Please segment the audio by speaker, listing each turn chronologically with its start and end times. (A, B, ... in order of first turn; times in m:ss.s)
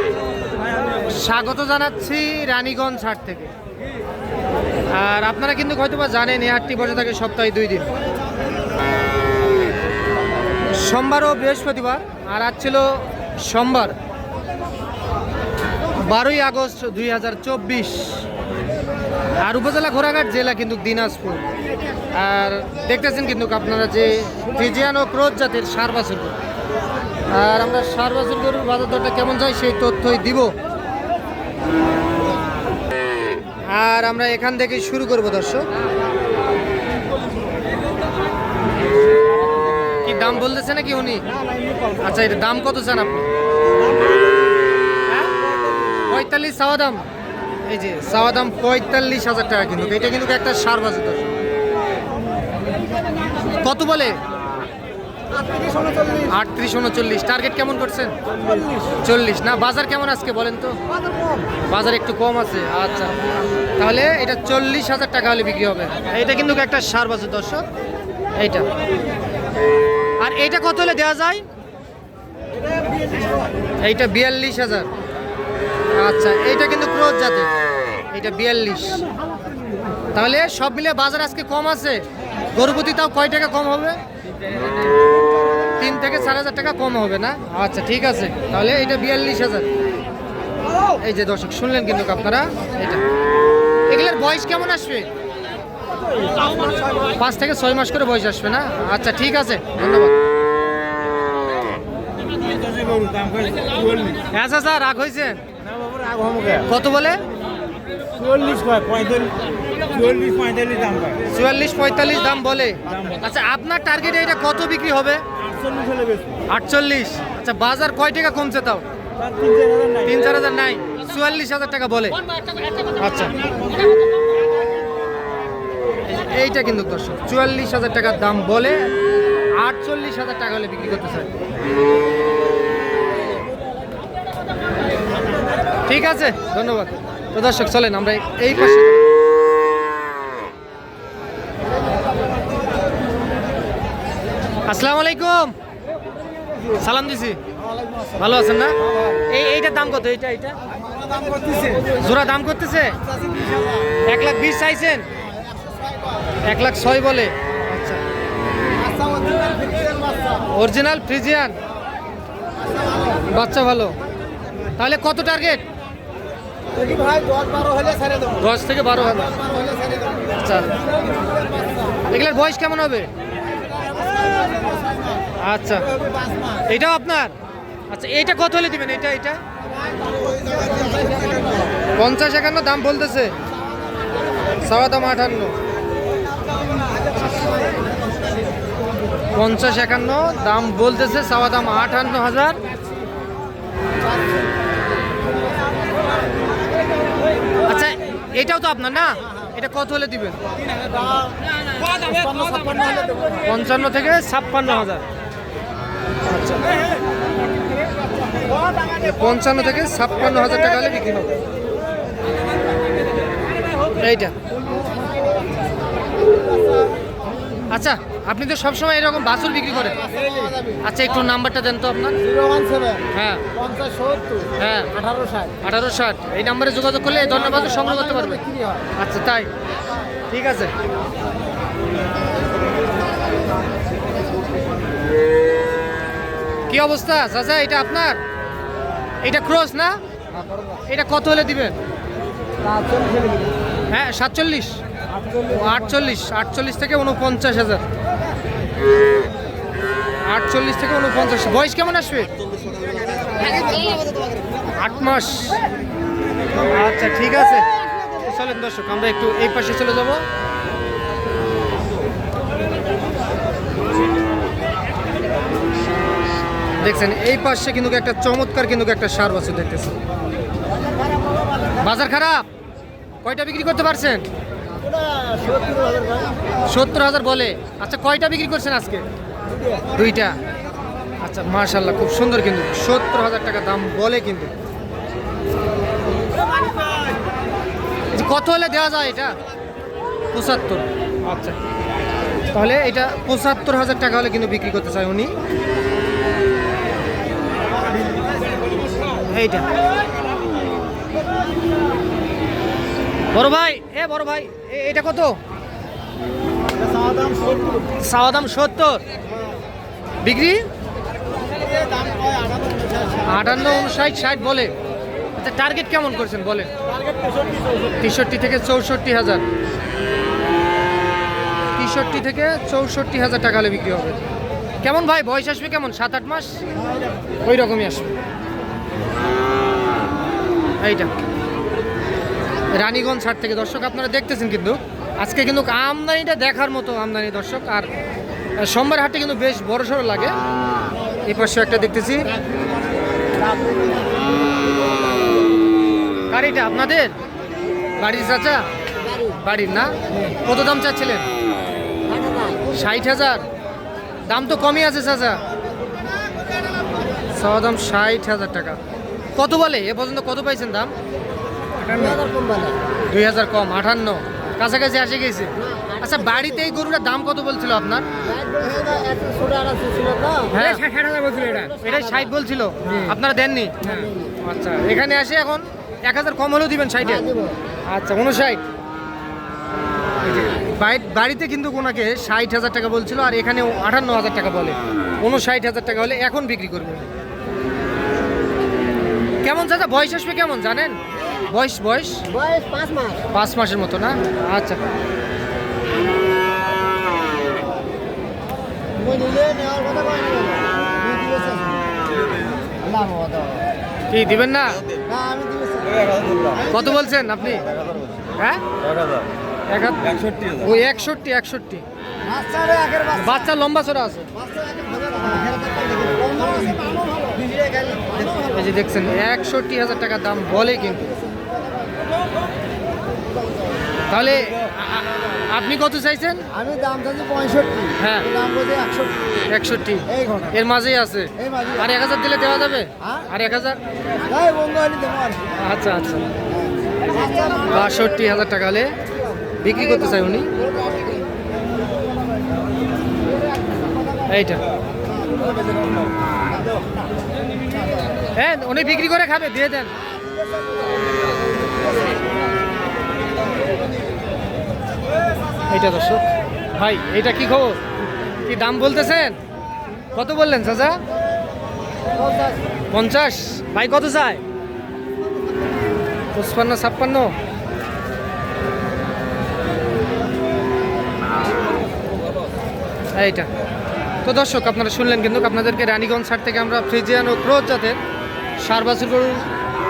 0:01.1-0:03.5 A
0:04.9-0:07.9 A
0:10.7-0:14.0 A
0:16.0-0:18.2 A
0:19.4-0:21.5 A
0:22.1-0:26.4 A
0:27.3-0:30.6 A
0:33.7-0:35.7 A
0:40.0-0:41.3 A
0:42.0-0:43.3 A
0:46.1-0:47.1 A
0:47.7-0:51.3 A
0:53.6-0:54.2 A
0:55.7-0:56.2 B
0:56.2-0:58.2 A
0:59.0-1:00.8 A
1:01.7-1:03.1 A
1:03.8-1:07.7 A
1:08.4-1:08.7 A
1:10.2-1:11.4 A
1:13.8-1:14.9 A
1:15.9-1:17.5 A
1:18.1-1:19.1 A
1:20.1-1:24.0 A
1:25.8-1:29.7 A
1:31.0-1:33.0 A
1:33.9-1:35.1 A
1:37.1-1:40.2 A
1:42.7-1:44.2 C
1:44.2-1:45.4 A
1:46.5-1:47.2 A
1:48.2-1:49.4 C
1:49.9-1:51.1 C
1:51.3-1:55.2 A
1:55.8-1:56.2 C
1:56.5-1:58.8 A
1:59.4-1:59.9 C
1:59.9-2:02.2 A
2:02.8-2:03.4 A
2:06.1-2:09.0 A
2:09.5-2:11.3 A
2:15.9-2:19.2 A
2:24.7-2:25.6 A
2:26.7-2:27.4 A
2:28.2-2:28.8 A
2:29.3-2:30.6 A
2:31.4-2:31.7 B
2:31.7-2:33.0 A
2:34.0-2:35.1 A
2:36.4-2:38.0 A
2:38.9-2:40.3 B
2:40.4-2:41.6 A
2:43.1-2:44.0 A
2:44.8-2:45.6 A
2:46.8-2:48.2 B
2:48.4-2:49.4 A
2:49.6-2:50.0 B
2:50.4-2:50.8 A
2:52.1-2:53.1 A
2:55.4-2:55.9 A
2:56.7-2:57.4 A
2:57.9-2:59.4 A
3:00.4-3:01.5 B
3:02.0-3:03.3 A
3:04.6-3:05.6 A
3:09.3-3:12.6 A
3:17.7-3:20.4 A
3:22.0-3:23.4 B
3:23.4-3:25.0 A
3:26.3-3:26.7 A
3:28.9-3:31.4 A
3:34.0-3:34.4 A
3:37.7-3:40.1 A
3:40.1-3:40.8 B
3:40.8-3:42.2 A
3:42.3-3:43.0 B
3:43.1-3:43.4 A
3:43.6-3:44.5 B
3:44.6-3:45.0 A
3:45.1-3:45.5 B
3:45.6-3:48.4 A
3:47.4-3:48.8 B
3:49.0-3:49.5 A
3:50.3-3:50.7 A
3:56.7-3:58.2 A
3:59.2-4:00.0 A
4:00.9-4:01.8 A
4:02.8-4:03.3 B
4:03.9-4:04.8 A
4:05.4-4:07.8 A
4:10.2-4:12.3 A
4:13.5-4:13.9 B
4:13.5-4:13.9 A
4:14.8-4:15.6 A
4:16.7-4:20.2 A
4:26.8-4:30.0 A
4:31.1-4:31.4 B
4:31.8-4:32.4 A
4:33.2-4:34.3 A
4:34.8-4:36.4 B
4:36.6-4:39.1 A
4:40.0-4:40.4 A
4:41.2-4:44.5 A
4:48.1-4:49.4 A
4:50.3-4:51.6 A
4:52.5-4:55.4 A
4:59.3-4:59.7 A
5:03.3-5:05.4 A
5:08.0-5:09.0 A
5:10.2-5:10.6 A
5:12.0-5:12.9 B
5:13.2-5:14.7 A
5:15.4-5:16.7 A
5:18.0-5:19.4 A
5:21.8-5:24.3 A
5:24.8-5:26.6 A
5:27.4-5:28.2 A
5:30.8-5:31.1 A
5:32.7-5:37.9 A
5:38.6-5:40.4 A
5:41.2-5:42.3 A
5:46.3-5:47.1 A
5:48.0-5:48.6 A
5:49.0-5:49.4 B
5:49.4-5:51.3 A
5:52.1-5:52.8 B
5:52.7-5:53.4 A
5:54.3-5:55.4 A
5:57.3-5:58.8 A
5:59.4-6:00.9 A
6:01.8-6:02.8 B
6:01.9-6:02.2 A
6:03.1-6:08.1 A
6:05.8-6:06.4 B
6:08.2-6:12.3 B
6:10.5-6:10.9 A
6:11.8-6:17.3 A
6:13.9-6:14.3 B
6:17.0-6:17.6 B
6:17.9-6:18.6 A
6:20.4-6:27.1 A
6:29.4-6:31.0 A
6:31.5-6:32.3 A
6:32.3-6:33.3 B
6:33.3-6:34.8 A
6:39.0-6:41.8 B
6:42.8-6:43.7 B
6:44.1-6:44.8 A
6:45.1-6:46.6 B
6:46.7-6:47.7 A
6:48.4-6:48.6 A
6:49.7-6:51.8 A
6:52.3-6:53.3 B
6:53.2-6:54.3 A
6:54.6-6:58.3 B
6:58.5-7:01.1 A
7:04.1-7:06.5 A
7:06.5-7:09.3 B
7:08.0-7:08.3 A
7:09.5-7:13.8 A
7:10.2-7:10.5 B
7:14.2-7:15.4 B
7:15.6-7:16.2 A
7:17.1-7:17.6 B
7:17.5-7:19.0 A
7:19.6-7:20.5 A
7:24.3-7:24.6 A
7:28.4-7:29.9 A
7:35.7-7:37.8 A
7:38.5-7:39.4 A
7:40.1-7:41.0 A
7:42.2-7:42.6 B
7:42.9-7:44.4 A
7:46.3-7:47.3 A
7:53.2-7:53.5 A
7:54.2-7:58.0 A
7:58.6-7:59.4 A